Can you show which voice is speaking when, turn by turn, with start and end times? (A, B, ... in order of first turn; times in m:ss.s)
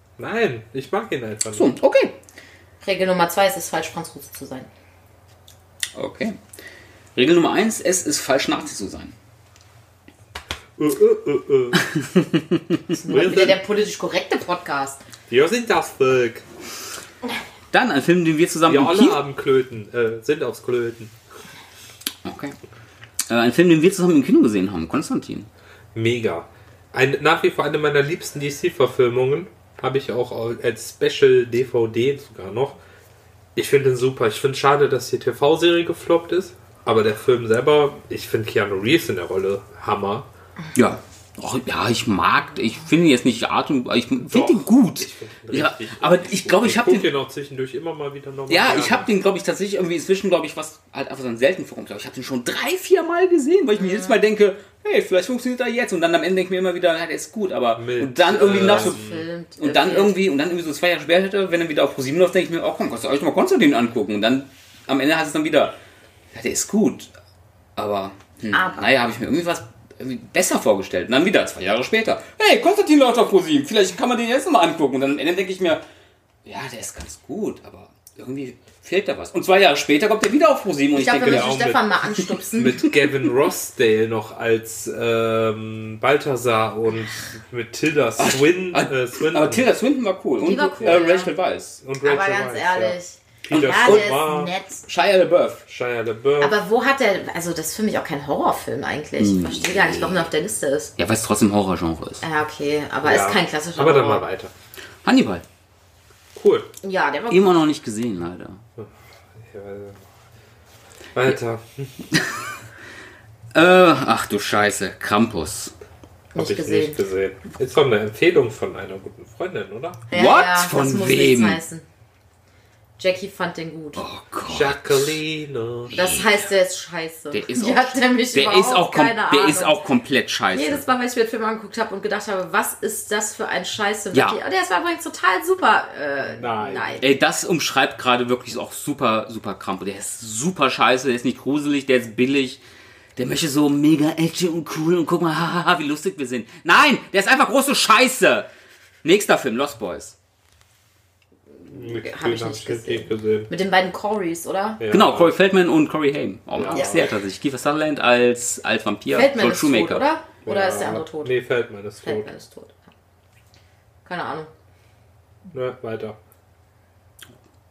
0:00.2-0:01.7 A
0:01.5-0:02.1 B
0:02.8-0:04.7 C
0:06.0-0:06.4 B
0:07.2-0:09.1 B
0:10.8-0:11.9 A
0:11.9-0:12.8 B
0:12.9-0:15.0 C
0:13.0-0:13.6 A
0:15.3-0:16.4 A
0:17.7-0:19.2 B
0:18.7-0:21.1 A
0:22.2-0:22.6 B
0:23.3-0:25.5 B
0:26.0-0:32.8 A
0:33.6-0:40.3 A
0:40.8-0:47.1 B
0:44.2-0:49.1 A
0:48.5-0:59.0 B
0:53.8-0:54.1 C
0:57.8-0:59.2 A
0:58.4-1:00.1 C
0:59.6-1:05.8 B
1:06.3-1:07.1 B
1:07.8-1:15.8 B
1:08.5-1:08.8 C
1:16.4-1:21.6 B
1:21.0-1:22.8 C
1:21.2-1:21.8 A
1:22.6-1:29.7 A
1:28.2-1:31.8 B
1:30.4-1:31.3 C
1:31.8-1:34.5 A
1:32.0-1:34.8 C
1:33.5-1:35.6 B
1:35.7-1:36.6 A
1:36.4-1:40.9 C
1:39.2-1:40.3 B
1:41.0-1:42.2 B
1:42.2-1:44.2 C
1:43.0-1:44.5 A
1:45.0-1:45.4 B
1:46.4-1:46.7 A
1:46.8-1:47.6 C
1:47.3-1:48.6 B
1:49.4-1:50.1 A
1:51.1-1:51.9 A
1:53.5-1:55.7 B
1:56.4-1:57.0 C
1:56.4-2:00.0 A
2:00.1-2:01.9 C
2:00.1-2:01.6 B
2:03.0-2:04.0 C
2:04.0-2:05.2 B
2:04.5-2:05.9 A
2:05.9-2:06.5 B
2:05.9-2:09.8 C
2:07.3-2:10.8 B
2:10.5-2:17.2 C
2:14.1-2:14.4 B
2:16.3-2:17.0 A
2:17.0-2:22.6 B
2:23.2-2:28.5 B
2:29.0-2:30.2 B
2:31.6-2:34.8 C
2:31.7-2:33.5 A
2:34.8-2:35.4 A
2:34.9-2:40.0 B
2:36.6-2:37.0 A
2:36.7-2:37.1 C
2:39.1-2:41.3 C
2:40.4-2:42.3 A
2:42.0-2:42.8 C
2:44.0-2:44.5 C
2:45.5-2:46.2 A